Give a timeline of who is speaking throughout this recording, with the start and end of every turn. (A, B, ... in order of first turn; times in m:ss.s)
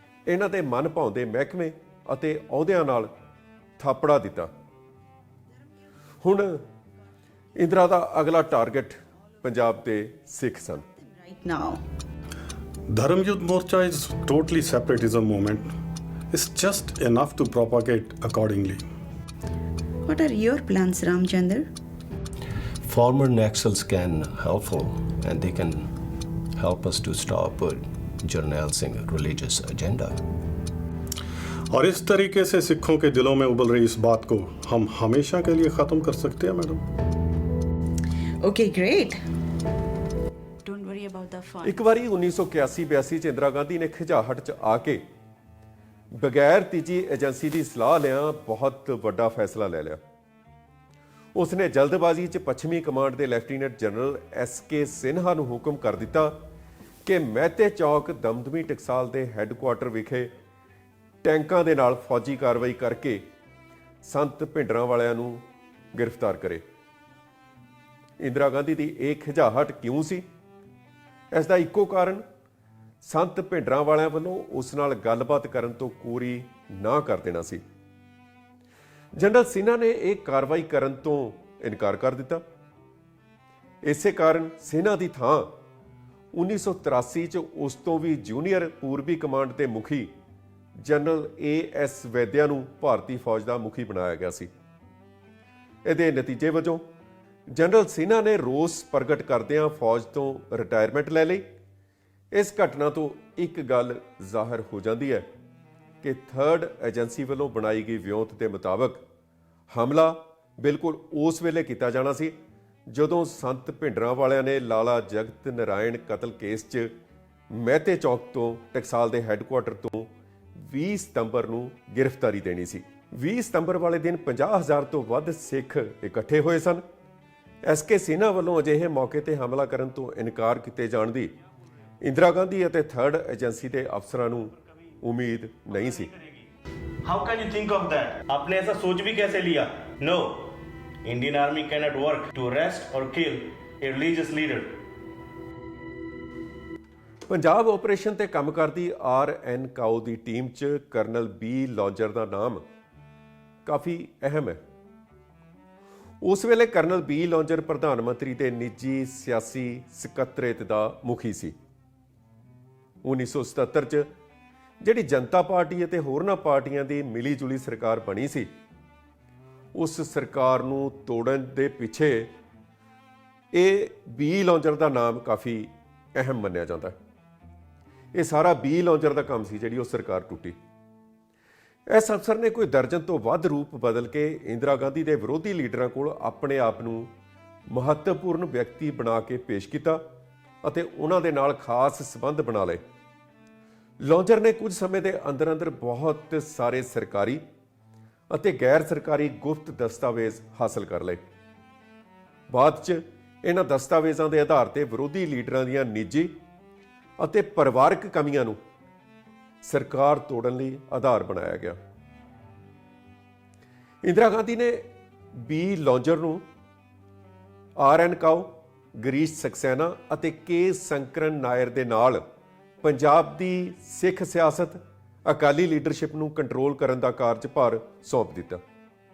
0:00.3-0:03.1 A
0:03.8-0:04.5 A
0:06.2-0:06.6 A
0:07.6-0:10.9 A
0:11.0-0:11.8 B
0:12.9-0:15.7 C
0:16.3-0:18.9 C
0:20.1-0:21.7 B
0:22.8-0:25.9 D
0:26.6-0:30.2 D
0:31.7-0:36.8 C
0:38.4-0:39.2 B
0:40.6-0:41.8 B
0:41.6-0:45.0 A
0:46.2-0:50.0 A
0:51.4-0:56.4 A
0:57.0-1:00.3 A
1:01.2-1:03.2 A
1:04.0-1:05.4 A
1:06.0-1:06.6 A
1:08.2-1:10.2 A
1:11.3-1:12.2 A
1:13.0-1:17.6 A
1:19.2-1:22.4 A
1:23.8-1:25.5 A
1:26.3-1:30.1 A
1:30.8-1:34.5 A
1:35.8-1:36.8 A
1:37.5-1:41.5 A
1:42.3-1:45.3 A
1:46.0-1:49.0 A
1:49.7-1:52.4 A
1:52.9-1:56.9 A
1:57.5-2:06.8 A
2:07.6-2:11.3 A
2:12.0-2:16.1 A
2:15.9-2:16.4 E
2:17.0-2:20.5 E
2:21.0-2:24.7 E
2:27.3-2:32.6 A
2:33.6-2:34.6 A
2:36.2-2:41.6 A
2:43.0-2:44.1 A
2:44.8-2:48.5 A
2:49.8-2:52.3 A
2:53.5-2:57.0 A
2:58.1-3:00.6 A
3:01.9-3:07.1 A
3:07.7-3:10.0 A
3:10.6-3:12.8 A
3:14.0-3:17.4 A
3:18.3-3:21.2 A
3:22.5-3:26.3 A
3:27.2-3:28.6 A
3:29.6-3:31.8 A
3:34.0-3:34.8 A
3:35.4-3:36.4 A
3:37.8-3:42.2 A
3:42.8-3:48.6 A